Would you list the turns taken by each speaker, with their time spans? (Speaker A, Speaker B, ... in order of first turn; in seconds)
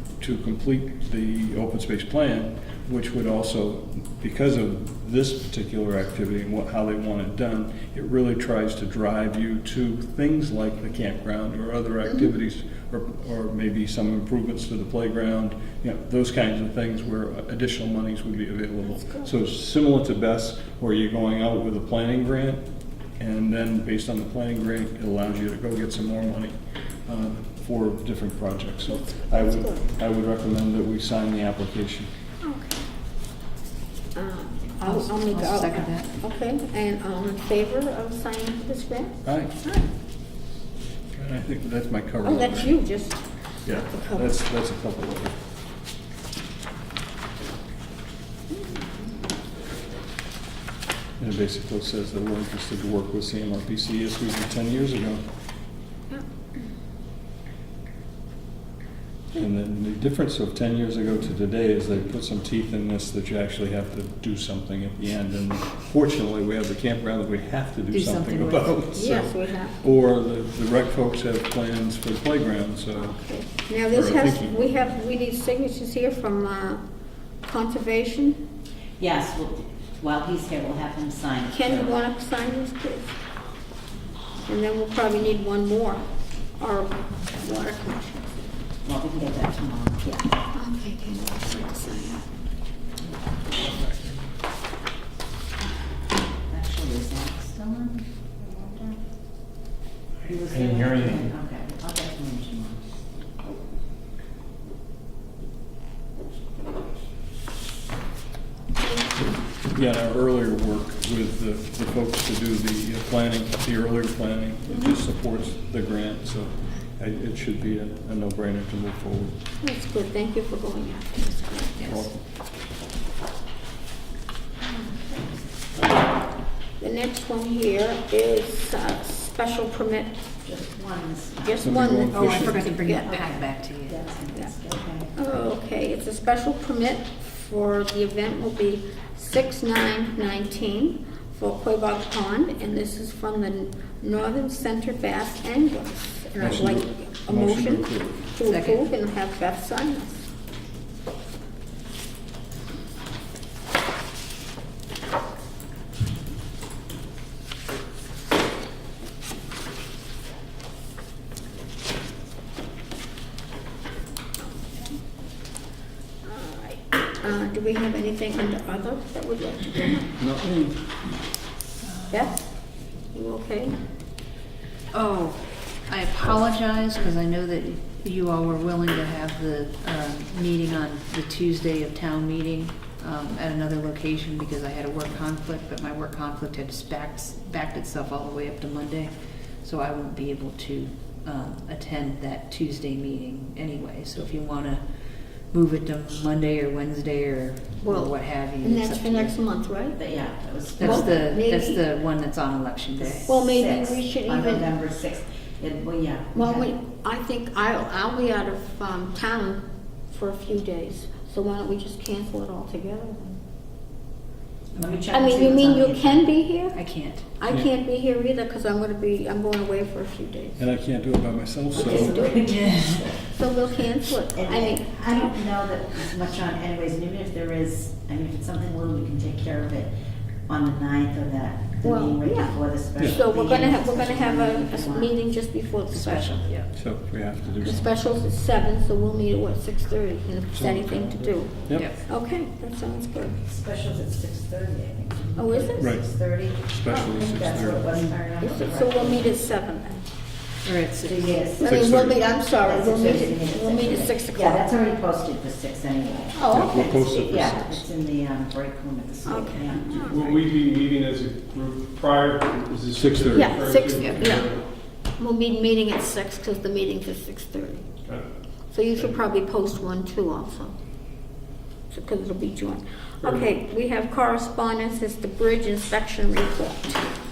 Speaker A: 0.2-22.6, 23.2-26.5, 27.1-32.1, 39.2-39.6, 41.1-42.8, 43.6-45.4, 51.2-55.2, 59.3-73.2, 73.8-74.8, 109.7-119.3, 121.8-122.2, 131.6-132.6, 146.4-148.3, 170.2-170.7, 220.6-222.3, 236.7-237.9, 240.5-241.9, 245.8-246.0, 246.6-247.9, 251.6-252.2, 256.5-257.7, 262.9-263.5
Speaker B: 19.0-19.3, 28.9-29.9, 32.4-32.8, 34.1-39.9, 42.2-44.3, 48.5-48.8, 68.9-69.8, 73.0-76.8, 77.4-78.4, 81.5-83.1, 84.4-86.0, 86.6-88.4, 90.0-92.3, 108.8-109.1, 119.6-122.0, 126.8-130.2, 131.4-133.1, 135.1-150.2, 164.4-164.9, 166.2-170.2, 173.1-173.8, 197.8-200.0, 200.8-201.8, 203.2-204.7, 206.3-213.4, 215.1-216.8, 217.4-220.6, 221.7-222.6, 223.1-225.4, 231.8-236.4, 237.6-243.4, 245.4-246.0, 248.4-250.1, 251.6-254.7, 256.3-257.4, 259.2-260.5, 263.3-264.5, 265.2-267.9, 268.7-270.7, 271.9-277.1
Speaker C: 34.8-36.1, 67.9-68.8, 132.1-134.0, 148.4-148.8, 171.8-172.3, 174.9-194.8, 195.5-199.3, 200.8-203.3, 214.7-215.0, 216.7-217.2, 222.5-223.0, 235.9-236.7, 250.6-251.4, 264.0-264.3
Speaker D: 79.0-81.9, 88.8-90.2, 96.3-99.0, 100.2-102.8, 124.7-125.3, 130.4-132.0, 132.8-135.1, 199.9-201.2, 203.0-206.7, 214.7-216.3, 221.7-223.2, 224.3-229.9, 230.5-235.1, 243.4-249.4, 251.0-260.1
Speaker E: 260.0-264.6, 273.2-273.5